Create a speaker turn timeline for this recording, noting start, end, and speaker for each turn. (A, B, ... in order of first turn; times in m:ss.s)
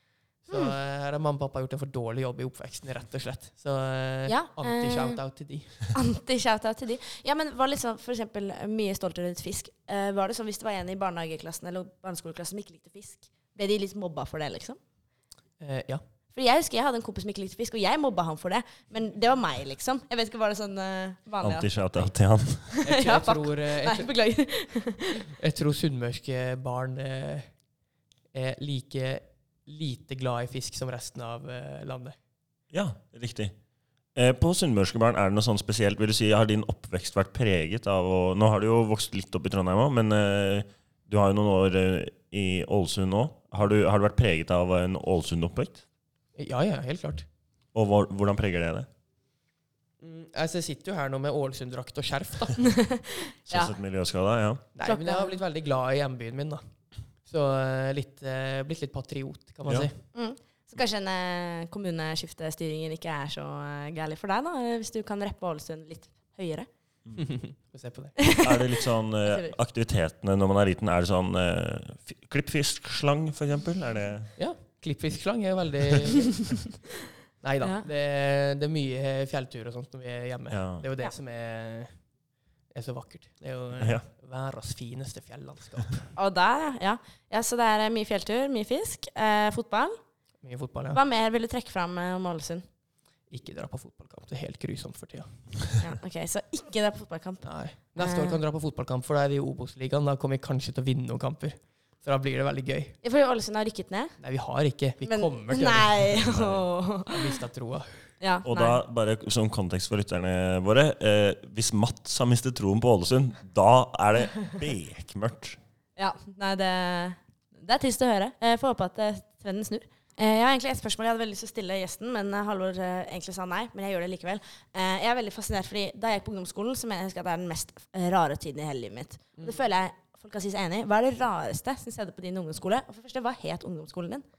0:00.4-0:05.9 A
0:04.3-0:05.2 B
0:05.9-0:14.8 B
0:15.6-0:16.0 A
0:16.3-0:21.7 B
0:21.4-0:22.8 C
0:22.8-0:25.3 B
0:22.8-0:24.1 A
0:25.3-0:27.5 A
0:28.3-0:32.2 A
0:32.7-0:33.5 C
0:34.1-0:45.8 C
0:46.4-0:47.3 A
0:47.7-0:48.9 C
0:50.0-0:52.6 A
0:52.6-0:53.7 B
0:53.5-0:54.6 C
0:54.8-0:56.6 A
0:54.8-0:55.4 B
0:57.3-1:00.0 A
1:00.1-1:06.7 B
1:07.1-1:08.2 A
1:08.2-1:08.5 B
1:08.3-1:14.3 C
1:09.3-1:09.6 B
1:14.4-1:16.6 A
1:17.4-1:21.9 A
1:20.5-1:20.8 C
1:22.7-1:26.1 A
1:23.8-1:24.0 C
1:26.1-1:30.0 B
1:30.4-1:31.0 A
1:30.9-1:32.6 B
1:33.3-1:35.3 A
1:35.8-1:38.4 B
1:37.4-1:43.0 A
1:43.0-1:44.1 B
1:44.2-1:47.9 A
1:45.0-1:47.3 B
1:48.2-1:48.8 B
1:48.4-1:55.6 C
1:56.0-2:14.2 B